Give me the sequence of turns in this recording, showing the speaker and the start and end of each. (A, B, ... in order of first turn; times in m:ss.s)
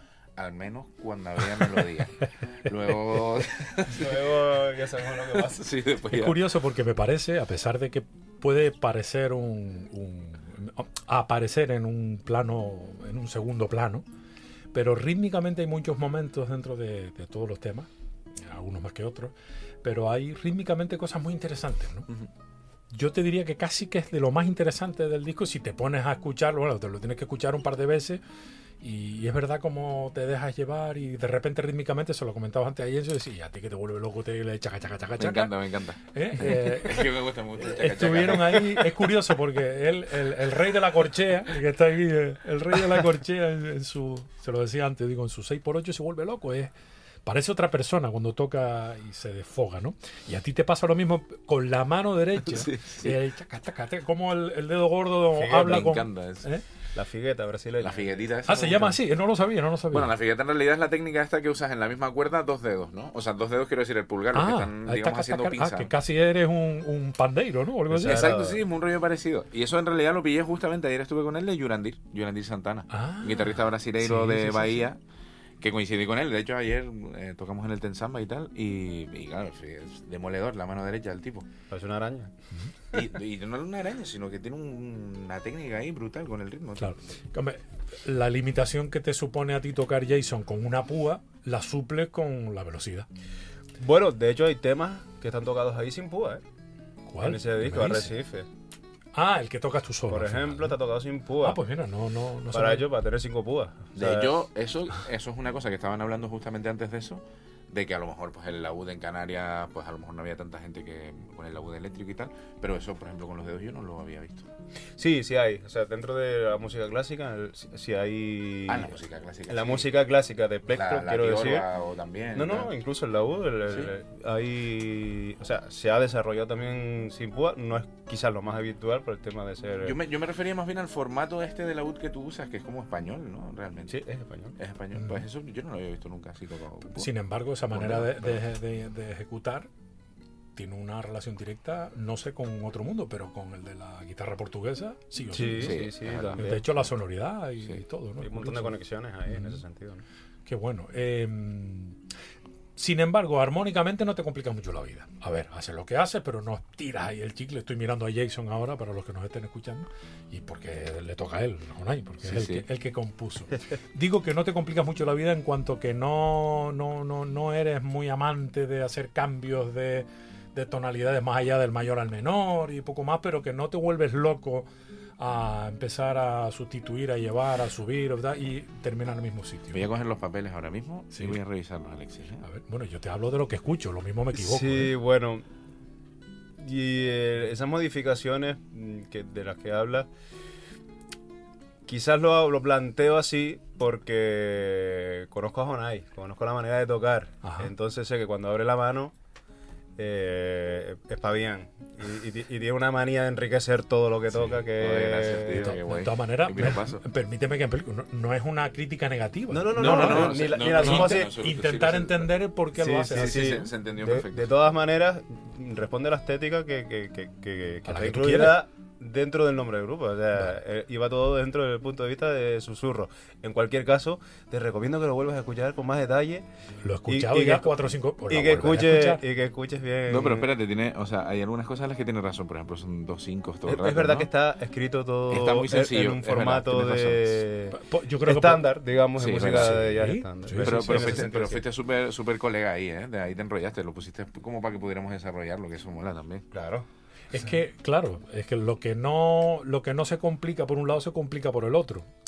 0:00.4-0:04.3 A
0:03.9-0:05.8 B
0:05.2-0:06.4 A
0:06.1-0:14.0 C
0:14.7-0:22.1 C
0:22.9-0:28.2 C
0:28.8-0:35.5 C
0:35.2-0:39.2 A
0:36.1-0:46.7 C
0:47.2-0:56.6 C
0:52.5-0:53.2 A
0:55.3-0:56.0 B
0:55.5-0:56.5 A
0:56.9-0:58.9 B
0:57.8-0:59.0 A
0:58.5-1:00.1 C
0:59.9-1:05.9 A
1:04.3-1:08.4 C
1:07.9-1:08.6 B
1:08.0-1:15.0 A
1:12.9-1:14.9 C
1:15.6-1:21.5 A
1:21.7-1:22.3 B
1:22.9-1:27.0 A
1:26.8-1:33.1 C
1:33.8-1:36.4 B
1:37.1-1:38.2 C
1:37.2-1:38.5 B
1:39.1-1:40.8 C
1:40.1-1:41.6 B
1:41.4-1:42.9 C
1:42.5-1:44.3 B
1:44.0-1:54.5 A
1:55.0-2:01.7 B
1:58.7-2:00.0 A
2:00.7-2:02.7 A
2:02.4-2:10.0 B
2:09.8-2:14.0 A
2:13.9-2:14.6 B
2:14.6-2:17.1 A
2:15.0-2:15.2 C
2:16.9-2:19.7 C
2:17.7-2:18.4 A
2:20.6-2:25.8 C
2:25.3-2:26.6 B
2:25.5-2:26.6 A
2:26.4-2:28.8 C
2:28.2-2:30.0 B
2:29.3-2:29.6 C
2:30.5-2:32.0 C
2:32.8-2:59.9 C
2:42.2-2:42.7 A
2:59.7-3:02.4 A
3:01.1-3:01.4 C
3:02.4-3:04.9 C
3:04.3-3:05.4 B
3:06.6-3:10.1 B
3:11.9-3:19.1 B
3:17.4-3:17.7 C
3:20.0-3:25.8 B
3:24.5-3:27.0 A
3:25.5-3:33.6 C
3:29.5-3:31.3 B
3:29.8-3:32.4 A
3:32.8-3:46.5 B
3:33.0-3:34.5 A
3:37.9-3:38.6 C
3:46.8-3:49.2 C
3:47.1-3:47.8 B
3:48.3-3:50.5 B
3:50.1-3:54.3 A
3:53.6-4:01.6 B
3:55.3-3:57.4 A
3:57.7-3:58.6 C
3:59.2-4:00.0 A
3:59.7-4:01.2 C
4:00.6-4:06.4 A
4:06.5-4:06.9 B
4:07.3-4:12.1 C